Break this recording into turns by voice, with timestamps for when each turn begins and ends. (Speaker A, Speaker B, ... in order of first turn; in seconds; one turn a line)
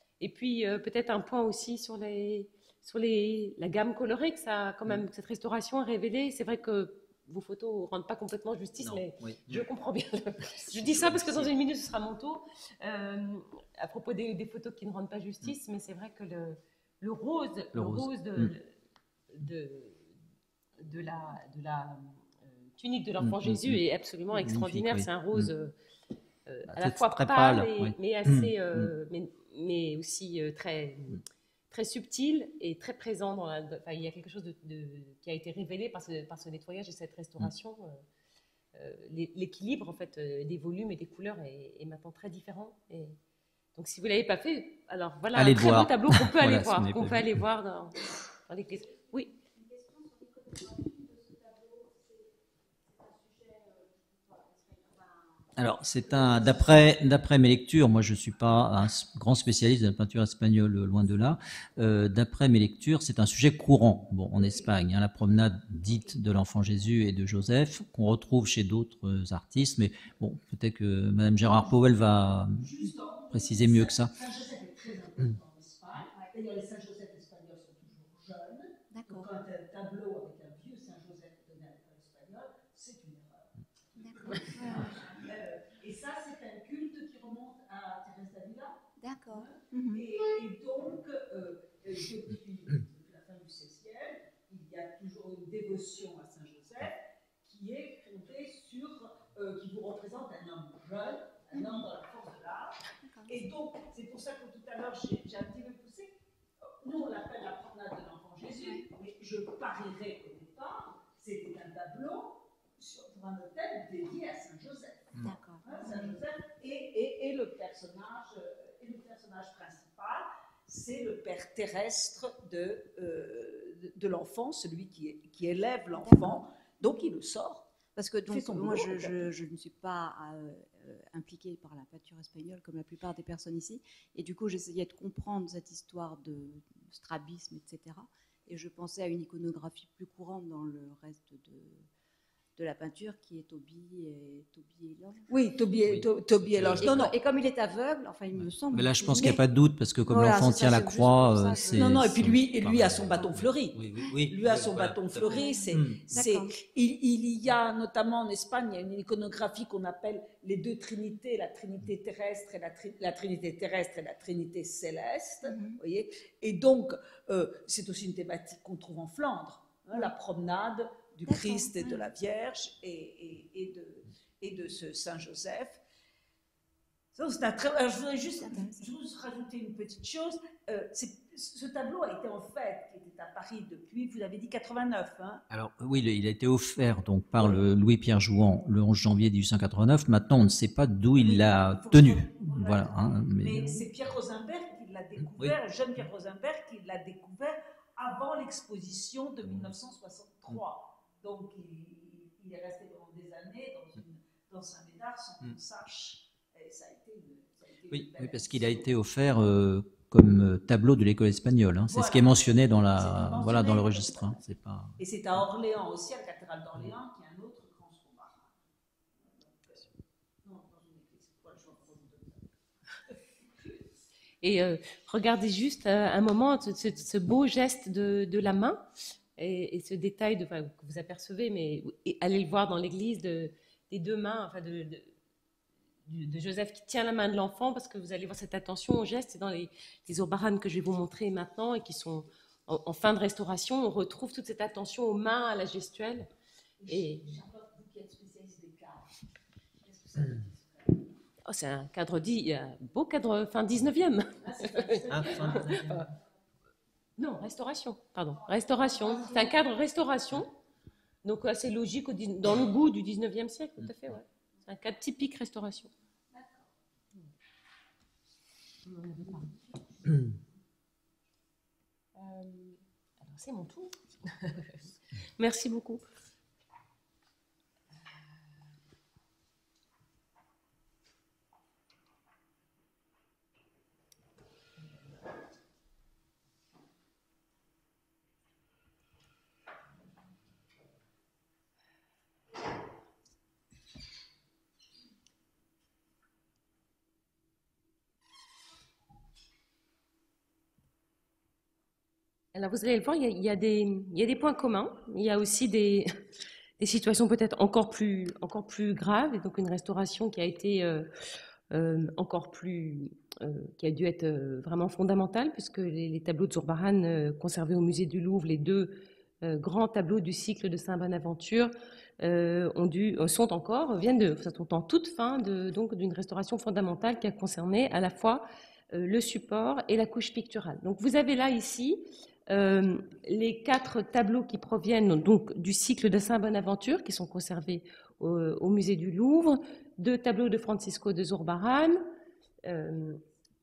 Speaker A: 0.2-18.7
Speaker B: 8.8-9.7
Speaker B: 10.4-11.5
Speaker B: 17.7-18.5
Speaker A: 19.3-20.0
Speaker A: 20.8-22.1
Speaker A: 22.8-25.7
Speaker B: 23.2-23.8
Speaker B: 24.3-25.5
Speaker A: 26.5-31.2
Speaker B: 26.7-28.9
Speaker A: 31.7-38.0
Speaker A: 38.7-43.1
Speaker A: 43.8-49.3
Speaker B: 45.3-47.3
Speaker C: 48.7-56.9
Speaker B: 55.5-72.7
Speaker D: 72.6-102.8
Speaker B: 73.3-74.1
Speaker C: 78.9-79.3
Speaker C: 84.0-84.8
Speaker C: 89.0-90.0
Speaker C: 101.5-101.8
Speaker C: 103.0-103.4
Speaker D: 103.3-106.1
Speaker D: 106.8-127.7
Speaker C: 108.6-108.8
Speaker C: 115.2-116.2
Speaker C: 126.0-126.3
Speaker C: 127.9-141.8
Speaker D: 128.3-129.3
Speaker C: 142.6-145.2
Speaker D: 145.3-147.1
Speaker B: 145.9-146.9
Speaker C: 146.7-149.4
Speaker B: 148.3-156.2
Speaker C: 150.1-152.1
Speaker D: 151.7-175.8
Speaker C: 155.2-156.6
Speaker C: 165.4-165.8
Speaker C: 171.2-172.0
Speaker D: 177.1-185.4
Speaker C: 178.4-178.9
Speaker B: 185.5-193.8
Speaker D: 191.2-208.9
Speaker B: 207.9-215.0
Speaker D: 211.9-214.4
Speaker D: 215.0-218.5
Speaker D: 219.2-219.9
Speaker D: 220.4-222.5
Speaker A: 224.4-228.8
Speaker A: 229.4-235.1
Speaker A: 236.1-246.3
Speaker D: 246.8-249.0
Speaker A: 246.9-247.2
Speaker D: 249.8-251.0
Speaker A: 251.4-256.0
Speaker D: 254.4-256.0
Speaker B: 255.1-255.9
Speaker A: 257.2-260.5
Speaker A: 261.2-265.9
Speaker A: 268.9-269.5
Speaker A: 272.1-274.8
Speaker A: 275.4-276.0
Speaker A: 302.5-306.1
Speaker A: 306.8-311.1
Speaker A: 311.7-342.0
Speaker A: 342.6-343.2